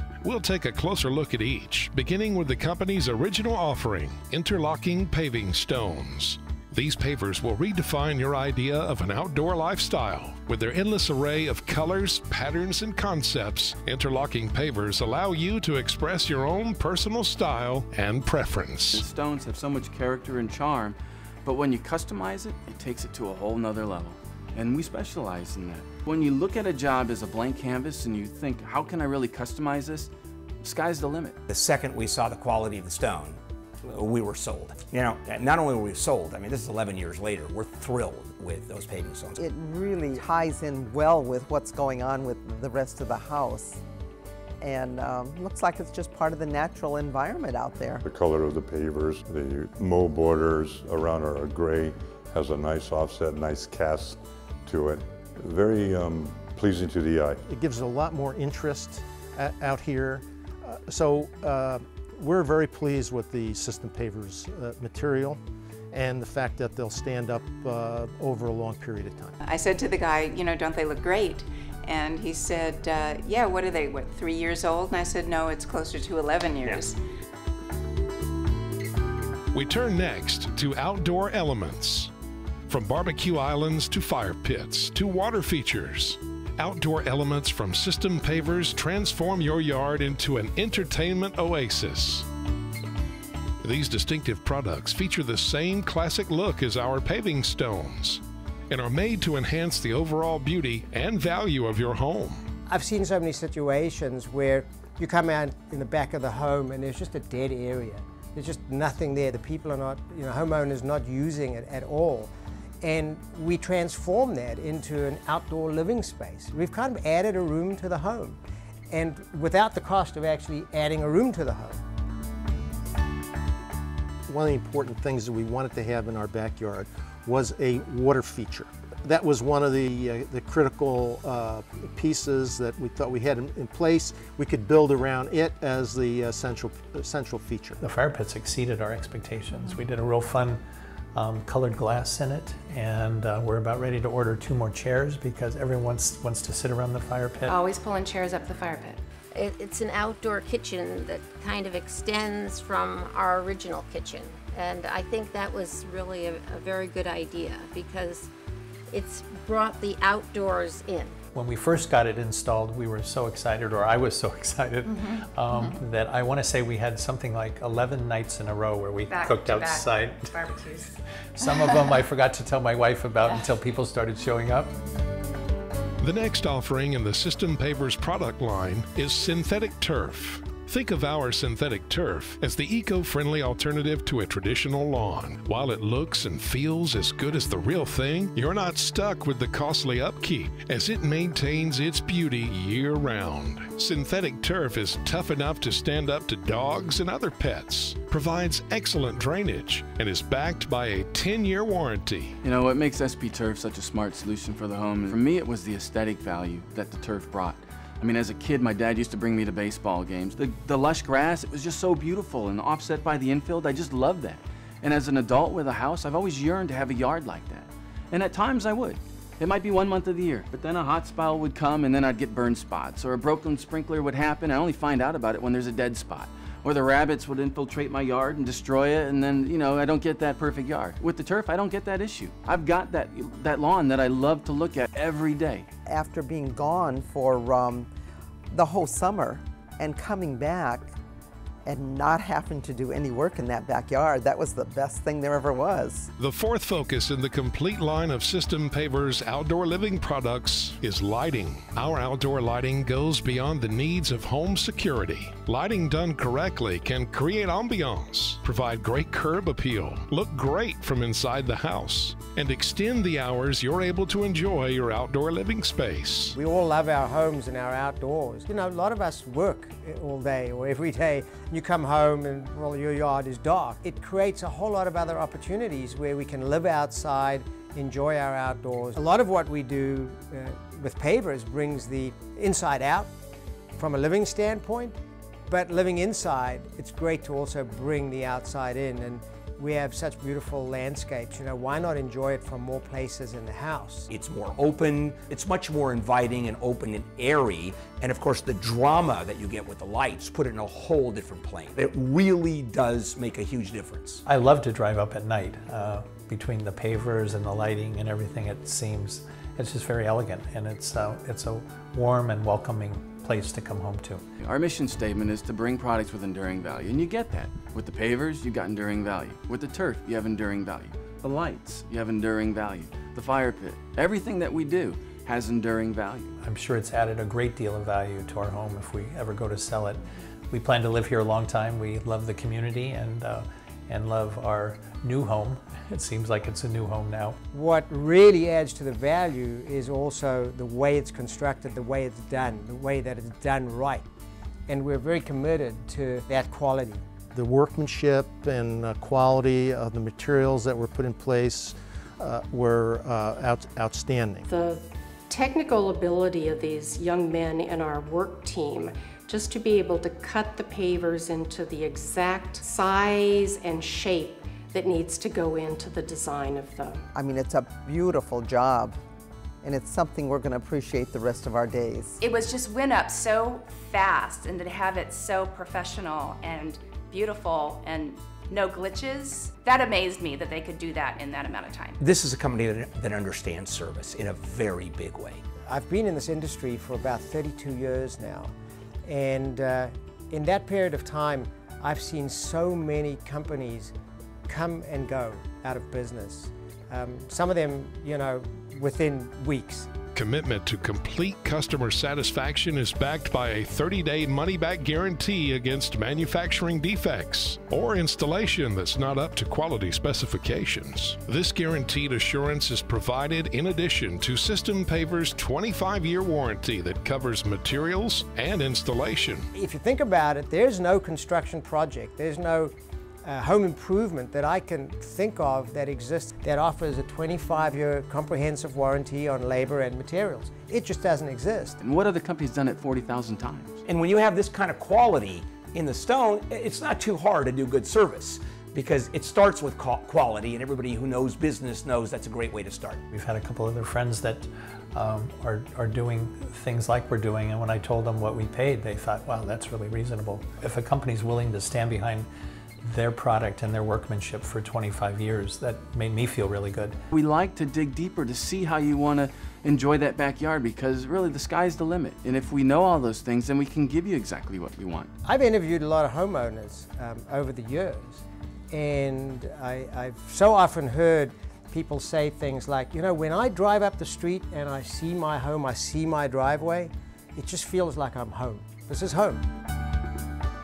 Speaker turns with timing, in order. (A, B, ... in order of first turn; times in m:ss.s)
0:00.2-0:19.0 A
0:18.9-0:30.1 B
0:30.6-0:31.4 B
0:31.5-0:39.5 C
0:39.4-0:43.8 D
0:44.6-0:48.0 D
0:48.0-0:57.4 E
0:57.5-1:05.4 F
1:05.9-1:09.4 F
1:09.4-1:16.9 G
1:19.5-1:22.1 A
1:22.7-1:32.3 A
1:33.6-1:42.4 A
1:42.7-1:52.3 H
1:52.8-2:01.8 H
2:04.3-2:17.8 F
2:17.8-2:20.6 I
2:21.1-2:27.6 I
2:27.5-2:29.0 J
2:29.3-2:38.3 K
2:38.9-2:41.2 K
2:41.3-2:50.4 I
2:49.1-2:51.0 G
2:51.3-2:54.7 I
2:56.0-3:22.4 A
3:22.4-3:55.7 B
3:55.9-3:57.9 D
3:58.5-4:00.9 D
4:01.6-4:06.1 D
4:06.2-4:26.4 A
4:26.3-4:43.1 H
4:43.8-4:54.1 H
4:54.1-5:04.2 C
5:04.2-5:14.2 I
5:14.4-5:26.3 B
5:26.4-5:37.4 I
5:37.5-5:44.1 H
5:44.7-5:47.0 H
5:47.3-5:54.5 F
5:54.5-6:07.0 J
6:07.2-6:09.0 D
6:09.6-6:12.2 D
6:12.2-6:22.0 L
6:12.4-6:16.5 G
6:17.1-6:21.7 G
6:22.0-6:25.4 C
6:25.7-6:28.5 H
6:29.1-6:33.9 H
6:34.5-6:39.9 H
6:40.2-6:59.5 A
6:59.6-7:02.7 H
7:03.2-7:11.8 H
7:11.8-7:13.8 B
7:13.8-7:23.0 C
7:23.1-7:32.3 I
7:32.8-7:37.0 I
7:37.1-7:45.1 B
7:45.2-7:59.4 H